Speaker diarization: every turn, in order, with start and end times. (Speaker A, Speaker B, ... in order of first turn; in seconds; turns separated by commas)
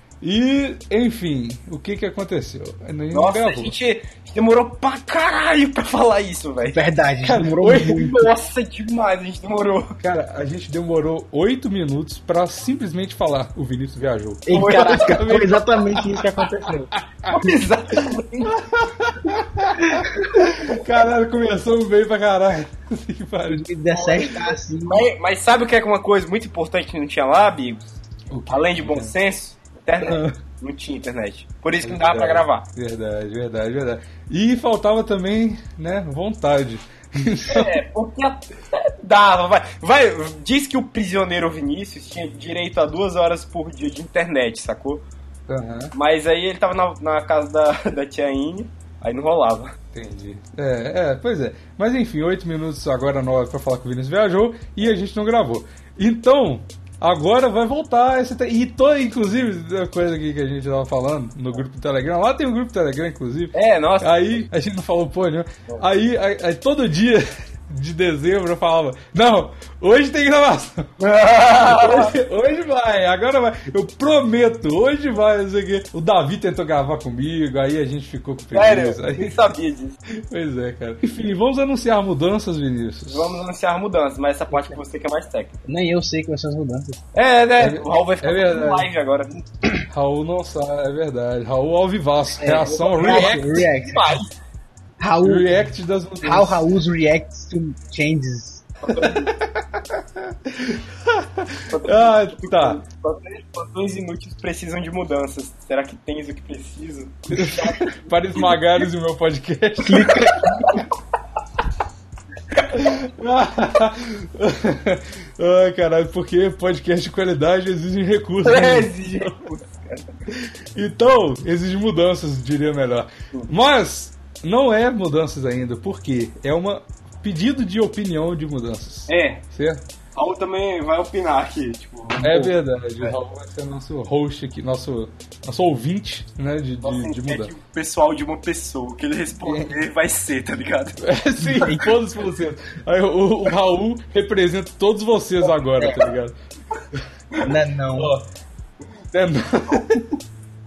Speaker A: 0.2-3.7, Speaker B: 3.1-6.8, Speaker C: 6.6-8.3, Speaker A: 7.2-8.0, Speaker B: 7.8-9.9, Speaker A: 10.0-17.0, Speaker C: 14.4-16.9, Speaker B: 14.5-15.2, Speaker B: 17.3-18.5, Speaker A: 18.5-23.6, Speaker C: 19.8-20.5, Speaker C: 23.5-25.0, Speaker B: 23.9-32.6, Speaker A: 28.3-29.1, Speaker A: 30.0-30.3, Speaker A: 31.8-37.8, Speaker B: 37.5-45.0, Speaker A: 45.5-45.9, Speaker B: 45.9-49.7, Speaker A: 49.9-70.9, Speaker B: 63.5-64.3, Speaker B: 71.0-72.1, Speaker A: 71.6-79.3, Speaker B: 78.5-80.0, Speaker A: 80.3-83.4, Speaker B: 83.1-85.5, Speaker C: 85.7-87.0, Speaker B: 87.1-89.4, Speaker A: 87.6-88.9, Speaker A: 89.9-94.0, Speaker C: 92.4-94.1, Speaker B: 93.0-93.2, Speaker B: 93.8-94.2, Speaker C: 95.0-95.6, Speaker A: 95.2-96.7, Speaker C: 96.2-98.7, Speaker B: 98.8-99.3, Speaker A: 98.9-99.6, Speaker A: 100.5-102.8, Speaker B: 101.7-108.8, Speaker A: 107.3-110.3, Speaker C: 109.8-110.6, Speaker A: 112.7-119.3, Speaker B: 118.4-120.1, Speaker A: 120.3-129.8, Speaker B: 129.1-129.4, Speaker B: 130.2-133.1, Speaker A: 132.2-137.5, Speaker B: 136.8-141.0, Speaker A: 139.4-139.8, Speaker A: 141.0-146.3, Speaker C: 141.4-141.9, Speaker B: 141.6-141.9, Speaker C: 145.7-146.1, Speaker C: 147.4-148.2, Speaker A: 147.9-148.3, Speaker A: 149.1-150.1